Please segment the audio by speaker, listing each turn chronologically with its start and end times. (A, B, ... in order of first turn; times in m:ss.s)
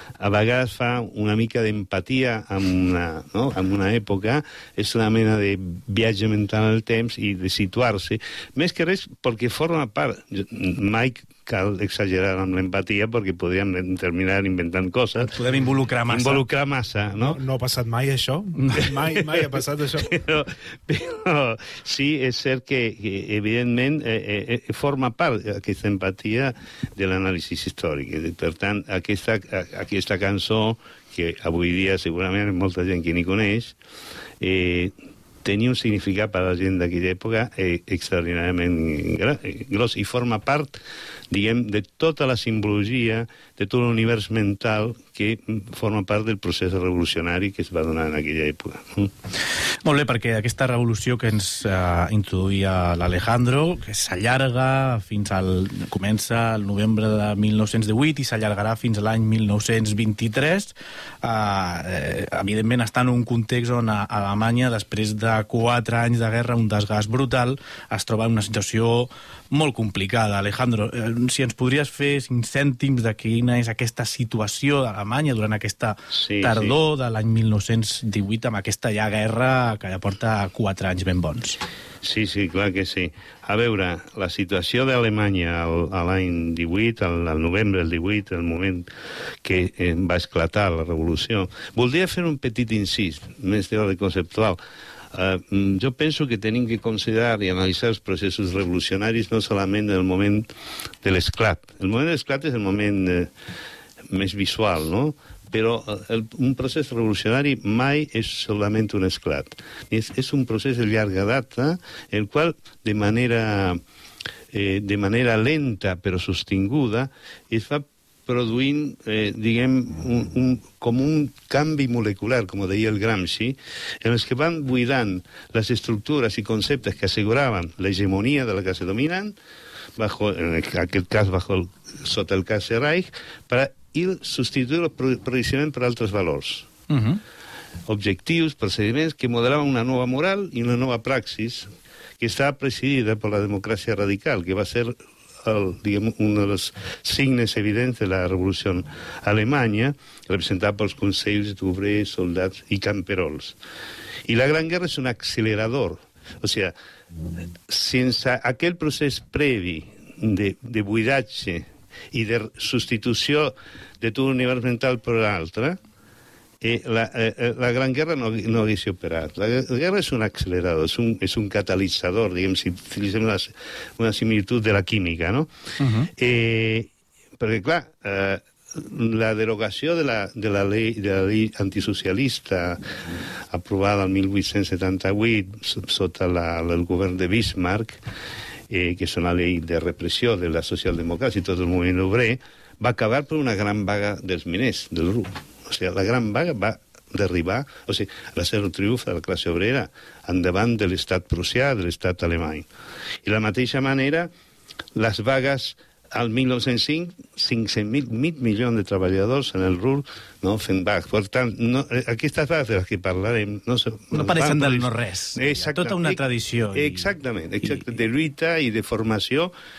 0:00.2-0:15.3 A
0:15.2-0:16.4 B
0:16.1-0:17.4 A
0:17.2-0:20.1 C
0:20.0-0:33.8 A
0:34.4-0:49.1 A
0:49.8-1:21.6 B
1:16.1-1:16.8 A
1:22.0-1:28.9 A
1:29.4-1:34.6 A
1:35.1-1:40.5 A
1:41.0-1:43.3 A
1:44.1-1:53.8 A
1:54.5-2:09.4 A
2:10.0-2:16.7 A
2:16.9-2:17.2 B
2:17.9-2:21.7 A
2:22.2-2:33.6 A
2:34.2-2:36.7 A
2:37.7-2:45.8 A
2:46.6-2:55.5 A
2:55.8-2:56.1 B
2:56.1-3:02.9 A
3:03.5-3:08.0 A
3:08.7-3:22.7 A
3:23.2-3:24.3 A
3:24.9-3:39.5 A
3:34.1-3:37.1 B